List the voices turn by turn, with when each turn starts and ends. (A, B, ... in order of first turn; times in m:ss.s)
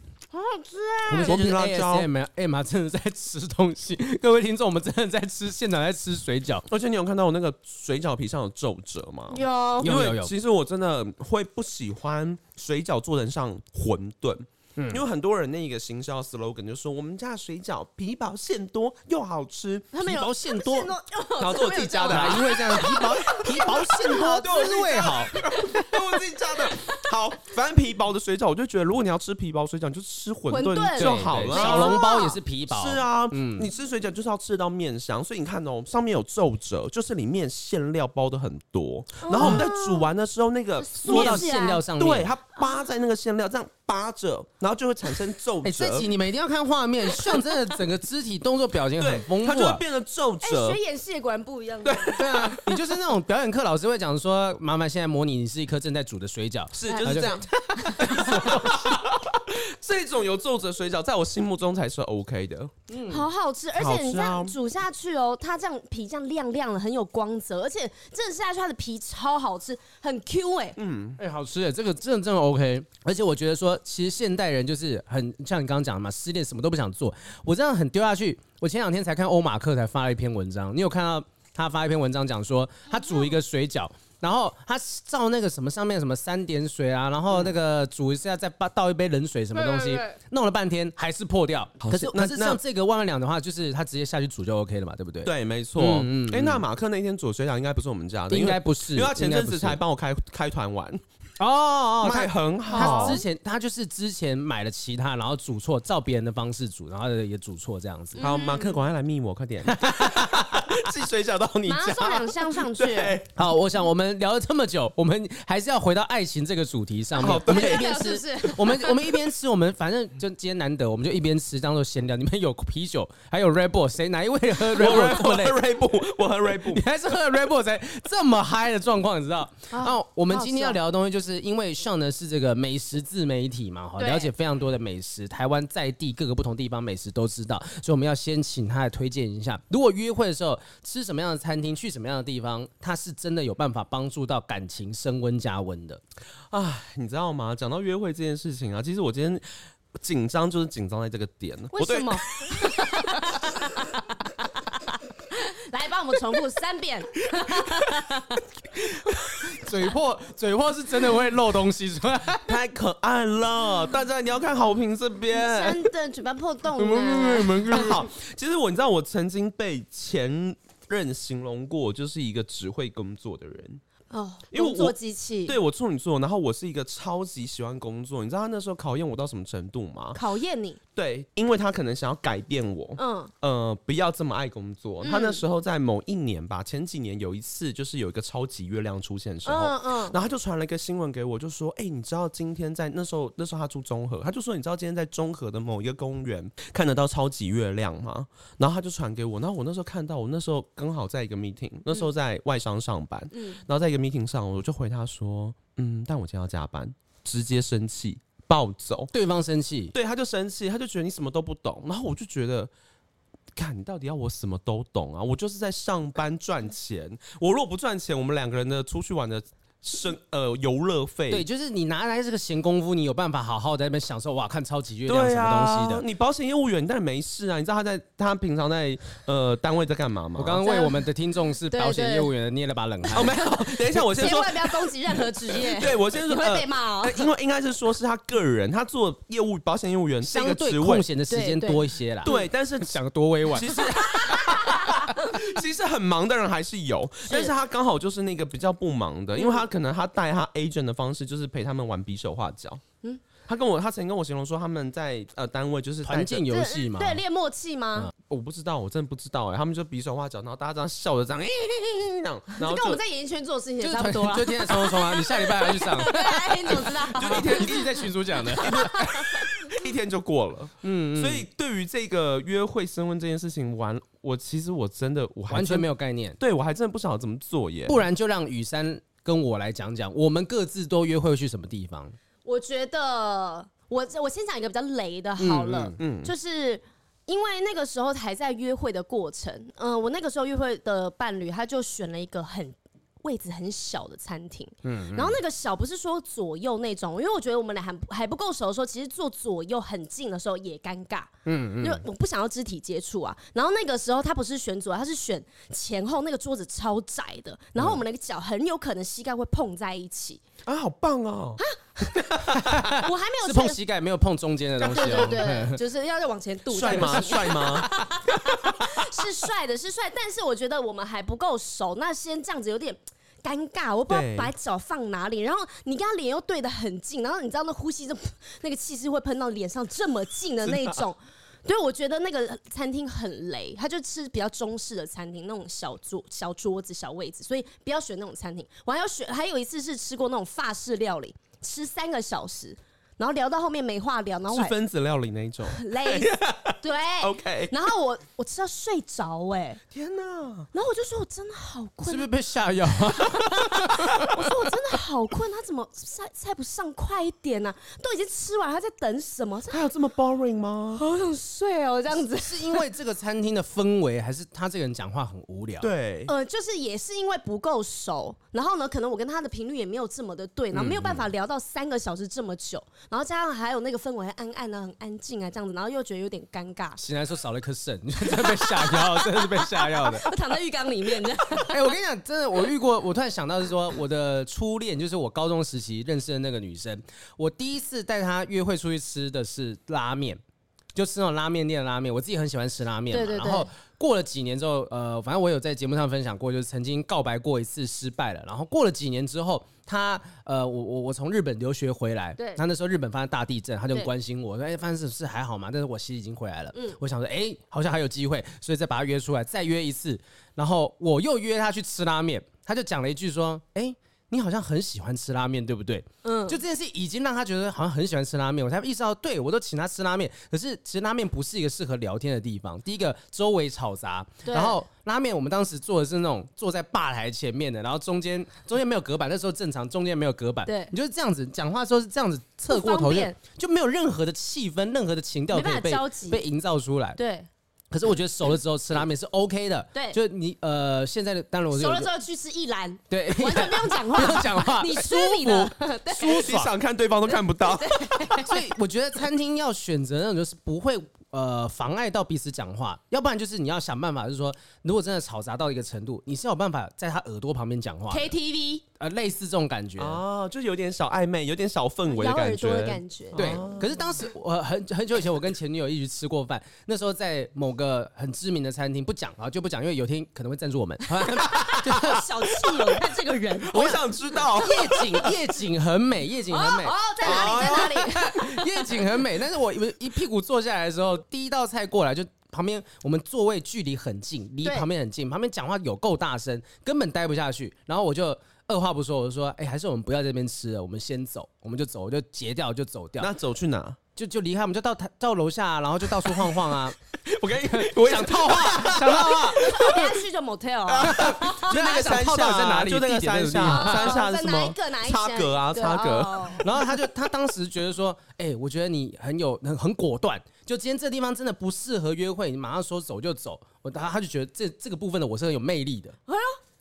0:00.3-0:01.4 A
0:01.1-0:02.1 B
0:01.1-0:06.6 C
0:06.7-0:20.0 B
0:09.3-0:09.9 A
0:09.8-0:10.3 C
0:14.8-0:15.1 C
0:19.9-0:25.9 A
0:20.0-0:20.9 C
0:21.4-0:32.0 B
0:22.1-0:25.4 C
0:30.5-0:32.4 A
0:31.0-0:33.7 C
0:32.7-0:46.1 B
0:39.2-0:40.0 A
0:39.4-0:39.6 C
0:40.8-0:41.8 A
0:41.0-0:42.3 C
0:45.6-0:49.8 C
0:49.0-0:50.8 B
0:50.4-0:52.2 A
0:51.8-0:52.8 B
0:52.2-0:59.0 C
0:56.7-1:02.7 B
0:56.9-0:58.6 A
1:02.9-1:03.3 C
1:03.1-1:10.8 A
1:03.8-1:04.6 B
1:10.8-1:11.2 B
1:11.2-1:36.6 C
1:27.3-1:27.6 B
1:29.5-1:30.1 A
1:31.8-1:32.6 B
1:35.2-1:41.0 B
1:38.3-1:39.8 C
1:41.4-1:48.3 C
1:42.0-1:43.2 B
1:42.7-1:43.2 A
1:48.2-1:48.8 A
1:48.2-1:53.4 B
1:49.7-1:50.6 C
1:51.6-1:53.2 A
1:53.4-2:05.6 C
1:57.2-1:57.9 B
1:57.2-1:59.2 A
2:04.7-2:06.8 B
2:06.6-2:26.0 C
2:09.7-2:10.8 A
2:14.0-2:14.3 A
2:26.5-2:29.5 B
2:30.0-2:33.3 B
2:31.7-2:38.4 A
2:39.4-2:42.6 C
2:42.4-2:45.9 B
2:45.3-2:47.8 A
2:46.8-2:48.1 C
2:47.7-2:53.8 B
2:54.1-2:55.6 A
2:54.5-3:00.2 B
3:00.1-3:00.8 A
3:01.0-3:29.1 B
3:03.0-3:03.3 A
3:05.0-3:05.4 A
3:09.4-3:10.2 A
3:23.3-3:23.6 A
3:29.1-3:29.9 C
3:29.9-3:32.7 B
3:33.6-3:41.4 B
3:41.3-3:46.0 C
3:45.1-3:50.6 B
3:50.4-3:54.0 C
3:50.6-3:51.0 A
3:51.7-3:52.3 A
3:53.1-3:57.3 A
3:53.1-3:54.9 B
3:55.5-4:01.1 B
4:00.2-4:03.9 C
4:01.3-4:02.5 A
4:02.2-4:12.8 B
4:03.9-4:05.4 A
4:07.2-4:07.5 A
4:09.4-4:09.6 A
4:13.5-4:16.5 B
4:16.0-4:17.2 C
4:16.5-4:18.1 A
4:18.3-4:23.0 B
4:22.6-4:28.0 A
4:23.8-4:29.2 C
4:27.1-4:28.1 B
4:28.6-4:29.7 A
4:28.6-4:35.9 B
4:30.8-4:31.4 C
4:35.5-4:36.4 C
4:36.4-4:38.0 B
4:37.9-4:42.1 C
4:42.4-5:10.4 A
4:45.4-4:46.0 C
4:46.0-4:46.3 B
4:54.8-4:55.4 C
5:01.4-5:02.0 C
5:10.6-5:11.6 B
5:11.6-5:12.3 A
5:12.2-5:12.9 B
5:12.5-5:15.8 C
5:12.9-5:13.8 A
5:14.8-5:44.7 A
5:16.7-5:17.9 B
5:16.8-5:18.0 C
5:24.1-5:24.5 B
5:30.6-5:31.0 B
5:44.5-5:47.7 B
5:45.7-5:49.8 A
5:49.9-5:50.7 B
5:50.7-5:52.3 A
5:52.0-5:54.3 C
5:53.2-5:59.9 A
5:53.9-5:54.2 B
5:59.7-6:01.0 B
6:01.0-6:02.8 A
6:02.3-6:05.9 C
6:05.8-6:06.3 B
6:06.3-6:17.0 A
6:10.7-6:11.1 B
6:10.9-6:11.2 C
6:17.0-6:20.3 C
6:18.2-6:22.0 A
6:21.5-6:30.4 C
6:30.9-7:17.2 C
6:33.1-6:33.7 A
6:42.4-6:42.6 A
6:46.7-6:47.0 A
6:56.2-6:56.6 A
7:04.4-7:04.8 A
7:10.6-7:10.9 A
7:12.7-7:13.4 A
7:15.5-7:16.4 A
7:17.2-7:17.5 A
7:17.9-7:22.1 C
7:21.7-7:26.6 A
7:23.1-7:26.7 C
7:26.3-7:28.4 B
7:27.6-7:28.6 A
7:28.4-7:38.3 C
7:38.1-7:38.8 A
7:39.0-7:40.2 C
7:40.0-7:44.1 B
7:42.1-7:43.6 A
7:43.4-7:52.3 C
7:51.4-7:54.0 A
7:51.5-7:51.9 B
7:53.7-7:55.3 B
7:53.7-7:54.0 C
7:54.5-8:13.3 C
7:54.6-7:55.1 A
7:56.5-7:58.8 A
7:57.2-7:58.0 B
8:13.2-8:14.0 B
8:14.2-8:17.0 C
8:17.2-8:19.9 B
8:17.6-8:20.0 C
8:19.2-8:21.8 A
8:20.9-8:26.8 B
8:21.0-8:24.2 C
8:23.6-8:26.6 A
8:26.6-8:36.2 C
8:36.3-8:36.6 A